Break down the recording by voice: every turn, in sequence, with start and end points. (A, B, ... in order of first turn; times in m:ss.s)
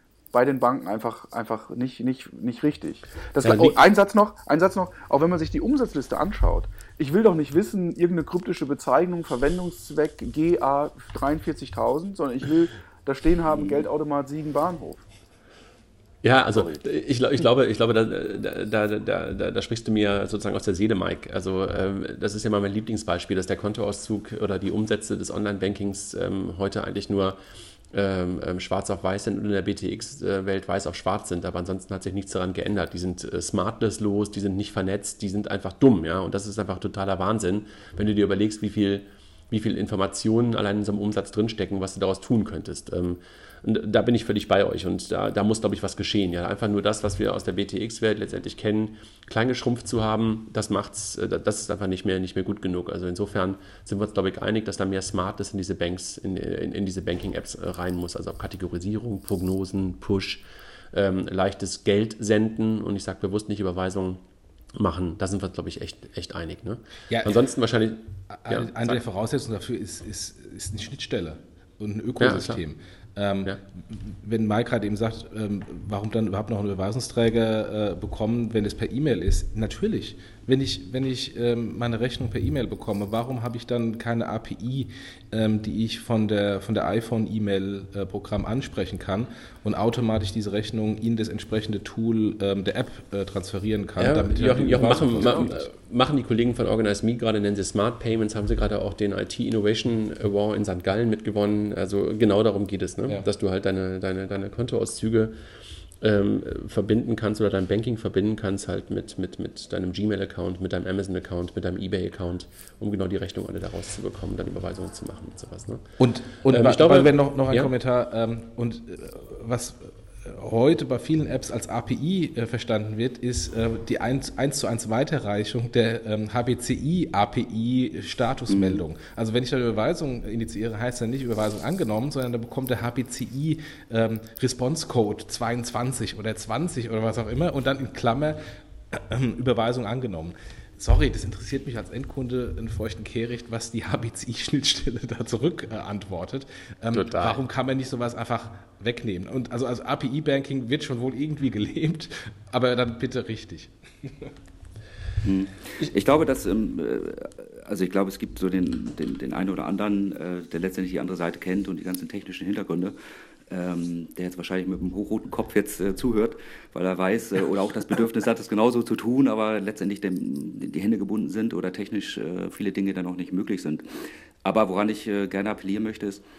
0:00.3-0:15.0 A
0:03.4-0:03.8 B
0:16.2-0:27.4 B
0:27.9-1:04.2 B
1:04.7-1:09.0 B
1:07.1-1:07.4 C
1:08.3-1:35.7 C
1:12.2-1:12.6 B
1:34.0-1:45.4 B
1:46.0-1:55.8 B
1:56.0-2:34.3 C
1:56.4-1:57.7 B
2:08.5-2:08.8 D
2:26.9-2:27.4 B
2:35.2-2:43.0 D
2:43.5-2:53.8 D
2:54.4-2:56.2 D